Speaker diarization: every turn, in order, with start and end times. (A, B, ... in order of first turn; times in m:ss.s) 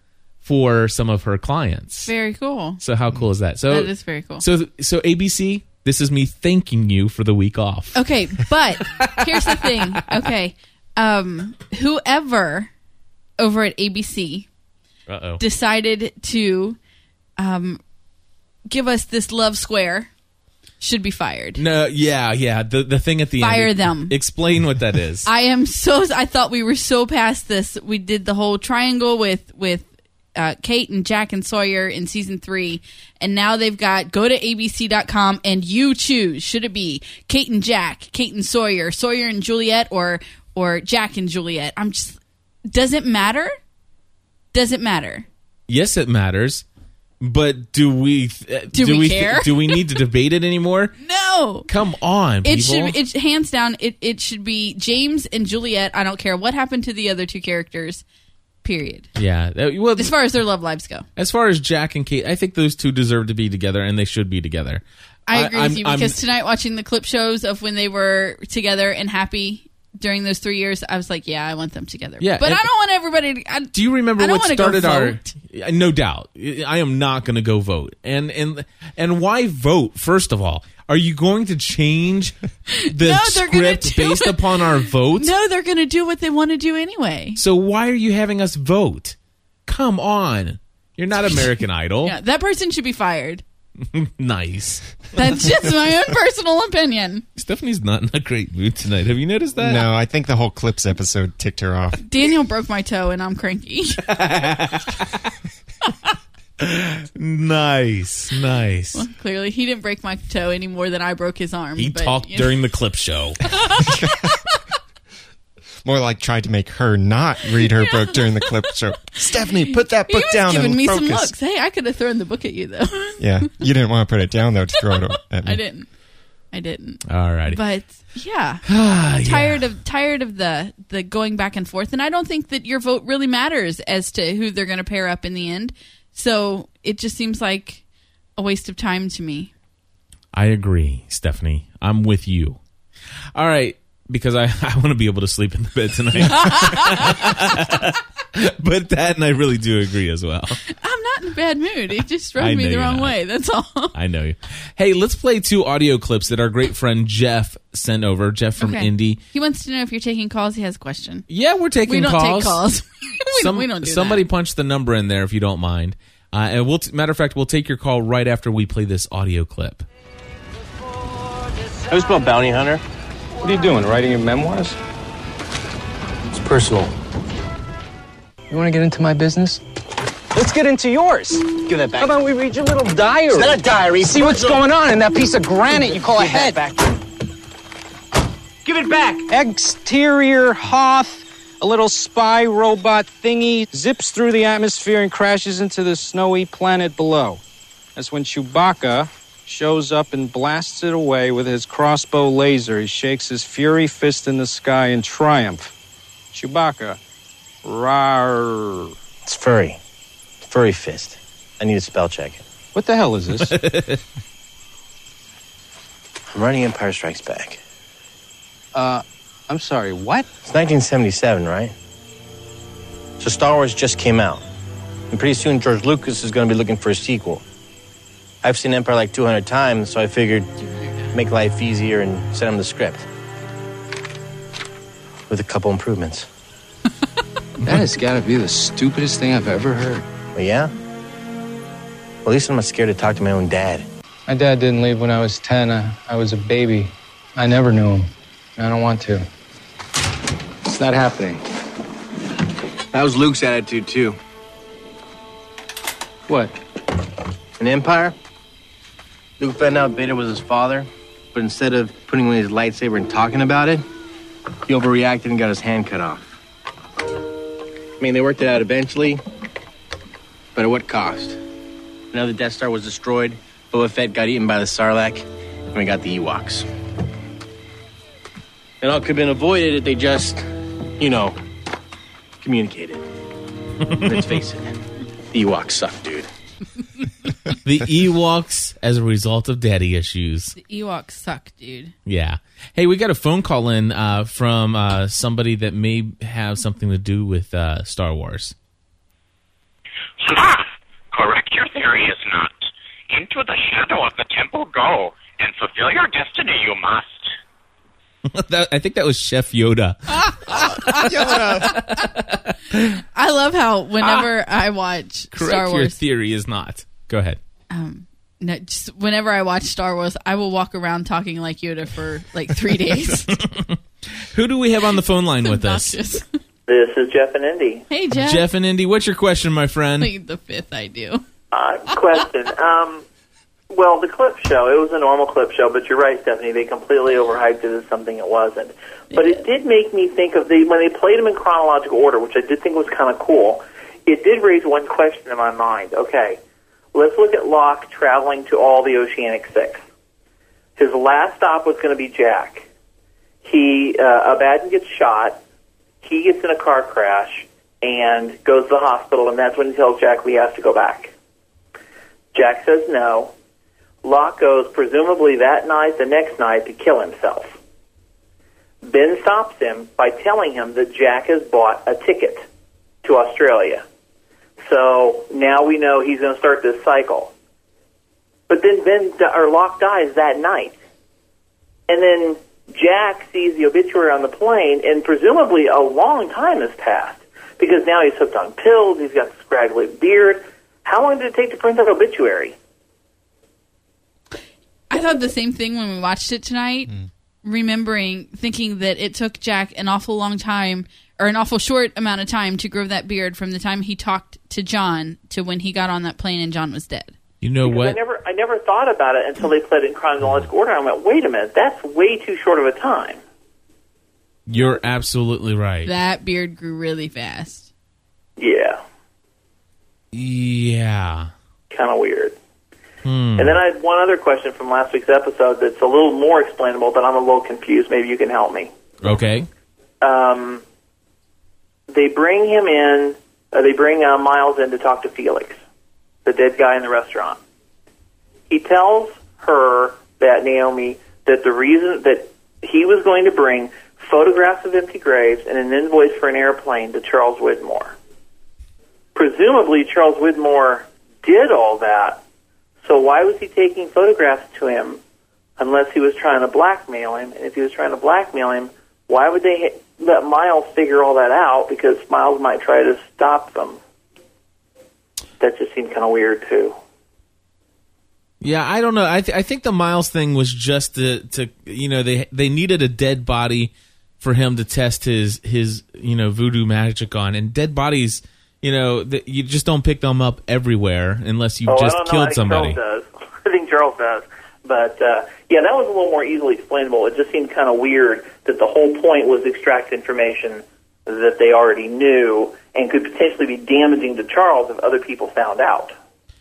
0:00.4-0:02.1 A
0:02.0-0:02.8 B
0:02.8-0:08.0 A
0:03.7-0:04.4 B
0:07.9-0:12.7 B
0:08.9-0:09.7 A
0:13.4-0:14.5 B
0:15.1-0:15.4 A
0:15.4-0:16.8 B
0:17.4-0:17.8 B
0:18.7-0:20.1 B
0:20.8-0:21.6 B
0:21.6-0:25.3 A
0:23.4-0:24.2 B
0:25.2-0:43.5 B
0:44.5-0:45.2 B
0:45.7-0:46.6 A
0:47.2-0:50.9 A
0:48.7-0:49.8 B
0:51.0-0:51.7 B
0:51.7-0:52.9 A
0:52.4-0:58.0 B
0:58.6-0:59.1 B
0:59.1-1:00.1 A
1:00.0-1:01.0 B
1:01.2-1:06.2 A
1:05.3-1:15.3 B
1:12.2-1:12.7 A
1:13.7-1:25.3 A
1:22.7-1:27.4 B
1:27.4-1:32.2 A
1:32.0-1:33.4 B
1:33.8-1:34.9 A
1:35.1-1:37.2 B
1:37.4-1:39.8 A
1:39.6-1:42.0 C
1:42.0-1:44.0 B
1:44.0-1:45.2 A
1:46.6-1:49.0 A
1:48.9-1:52.6 B
1:51.8-1:53.4 A
1:53.4-1:54.0 B
1:53.9-1:54.3 C
1:55.8-2:01.3 C
1:59.7-2:03.3 B
2:03.2-2:05.6 C
2:05.4-2:05.9 B
2:06.5-2:08.6 B
2:07.1-2:07.6 A
2:08.6-2:09.6 A
2:09.2-2:17.8 B
2:18.4-2:19.5 B
2:20.3-2:22.6 A
2:23.3-2:30.6 A
2:26.3-2:27.2 B
2:30.7-2:33.9 B
2:32.4-2:33.1 A
2:33.9-2:39.2 A
2:38.6-2:41.2 B
2:41.3-2:42.6 A
2:41.8-2:44.2 B
2:43.3-2:49.8 A
2:51.9-2:52.8 D
2:53.4-2:54.8 E
2:56.3-2:56.9 D
2:58.5-2:59.6 E
3:00.3-3:06.6 E
3:01.5-3:02.2 D
3:03.3-3:04.6 D
3:05.7-3:07.0 D
3:08.6-3:09.3 D
3:09.3-3:17.4 E
3:17.9-3:25.7 E
3:26.3-3:27.0 E
3:27.6-3:28.9 E
3:29.2-3:29.8 D
3:30.4-3:32.4 D
3:32.7-3:33.6 E
3:33.4-3:34.0 A
3:36.3-3:37.6 D
3:38.7-3:40.3 E
3:40.4-3:41.7 D
3:43.2-3:44.4 D
3:45.1-3:47.4 D
3:48.4-3:50.5 D
3:51.1-3:53.0 D
3:55.3-3:56.3 D
3:57.6-4:00.0 E
4:00.3-4:00.7 D
4:02.2-4:03.9 D
4:04.3-4:09.2 E
4:10.6-4:11.4 E
4:12.9-4:14.2 D
4:16.3-4:16.5 E
4:17.6-4:18.1 D
4:19.4-4:23.8 D
4:24.7-4:26.4 D
4:28.0-4:29.2 D
4:30.6-4:31.4 D
4:32.1-4:36.7 D
4:38.8-4:40.4 D
4:41.0-4:41.4 D
4:42.4-4:43.0 D
4:43.9-4:44.2 A
4:44.0-4:44.8 D
4:45.3-4:46.3 D
4:47.6-4:50.5 A
4:50.5-4:51.9 B
4:52.0-4:58.5 A
5:00.2-5:07.3 F
5:08.3-5:13.0 A
5:10.9-5:11.7 C
5:13.1-5:16.0 B
5:15.3-5:17.4 A
5:17.7-5:23.4 B
5:23.3-5:26.0 A
5:25.4-5:26.3 B
5:26.7-5:27.8 G
5:27.9-5:28.4 B
5:28.1-5:30.1 A
5:30.0-5:31.2 B
5:31.5-5:33.0 G
5:33.7-5:46.4 G
5:39.1-5:39.4 B
5:46.9-5:49.8 G
5:50.8-5:52.7 G
5:53.4-5:55.4 G
5:56.0-6:01.1 G
6:02.3-6:03.3 G
6:04.0-6:07.5 G
6:08.8-6:12.4 G
6:13.0-6:13.8 G
6:14.6-6:17.3 G
6:18.5-6:20.7 G
6:21.9-6:32.6 G
6:34.9-6:47.2 B
6:47.4-6:48.0 A
6:47.6-6:53.2 G
6:54.5-6:55.9 A
6:55.8-6:57.6 B
6:58.4-6:58.8 G
7:00.1-7:01.3 A
7:01.7-7:02.3 G
7:03.0-7:03.6 A
7:03.4-7:08.7 G
7:09.0-7:09.5 A
7:10.0-7:10.6 G
7:11.9-7:15.6 G
7:16.2-7:17.4 G
7:18.5-7:27.9 G
7:29.1-7:32.2 G
7:32.8-7:35.0 G
7:35.6-7:43.8 G
7:45.4-7:46.8 G
7:48.4-8:02.8 A
8:01.7-8:15.9 G